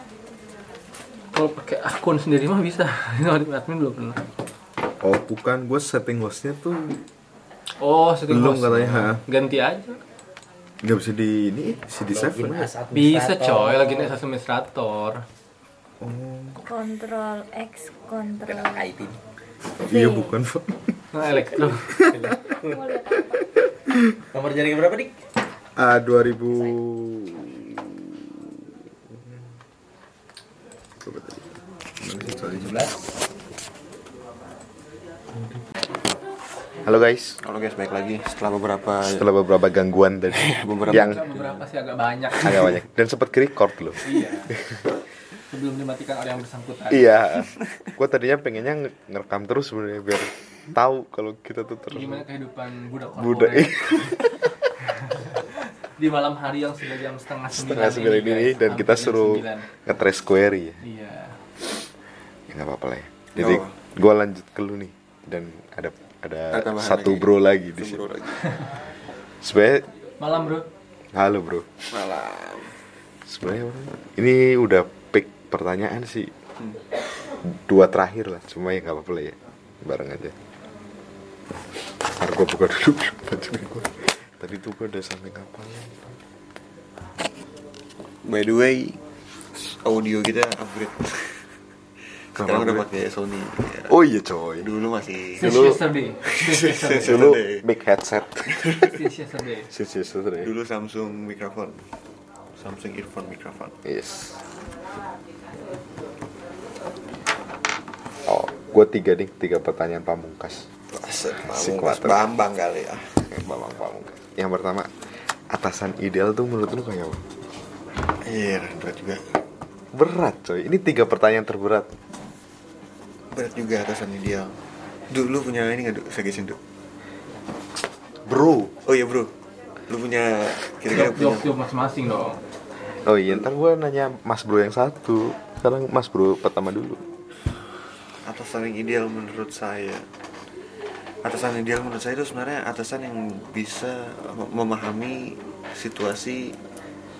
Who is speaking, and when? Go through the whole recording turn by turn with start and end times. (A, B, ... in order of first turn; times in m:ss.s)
0:01.3-0:04.2 A
0:05.0-0:07.0 B
0:07.8-0:10.0 A
0:08.3-0:09.2 B
0:10.8-0:12.7 B
0:12.1-0:14.2 C
0:12.9-0:15.2 A
0:16.0-0:16.6 B
0:16.7-0:18.7 D
0:18.4-0:19.2 C
0:19.8-0:21.0 B
0:21.1-0:22.2 A
0:21.9-0:22.2 B
0:24.3-0:25.1 C
0:25.8-0:28.4 B
0:31.0-0:31.5 B
0:32.0-0:32.9 B
0:32.1-0:33.0 C
0:36.8-0:37.4 B
0:37.4-0:39.3 E
0:39.0-0:41.2 B
0:40.3-0:41.6 E
0:40.8-0:42.8 A
0:42.4-0:44.0 B
0:44.0-0:44.5 A
0:45.5-0:47.2 A
0:46.9-0:52.2 B
0:51.9-0:54.3 A
0:53.1-0:54.3 B
0:56.0-0:59.7 A
0:57.5-1:00.8 B
1:00.8-1:01.4 A
1:02.5-1:08.0 B
1:03.4-1:03.7 E
1:06.5-1:08.5 E
1:09.4-1:09.9 B
1:10.2-1:10.7 A
1:11.1-1:11.7 B
1:11.9-1:12.7 E
1:13.2-1:16.3 B
1:17.4-1:20.3 B
1:22.0-1:26.2 B
1:28.2-1:29.0 E
1:29.5-1:31.5 E
1:32.3-1:33.9 E
1:32.4-1:32.9 B
1:33.9-1:34.7 B
1:34.6-1:35.6 E
1:35.4-1:37.2 A
1:35.4-1:35.8 B
1:36.4-1:37.6 E
1:37.0-1:38.9 B
1:38.8-1:39.7 A
1:39.7-1:40.5 B
1:40.4-1:41.8 E
1:42.5-1:43.7 E
1:43.8-1:44.4 B
1:48.2-1:50.7 B
1:50.9-1:53.2 E
1:51.4-1:52.3 B
1:53.3-1:54.9 B
1:55.5-1:57.2 B
1:58.2-1:59.2 E
1:59.9-2:01.9 B
2:03.3-2:04.6 E
2:05.1-2:06.6 E
2:08.2-2:08.7 B
2:08.8-2:09.3 E
2:09.9-2:11.5 E
2:10.9-2:12.4 A
2:13.0-2:17.0 B
2:18.2-2:20.0 E
2:21.2-2:26.6 E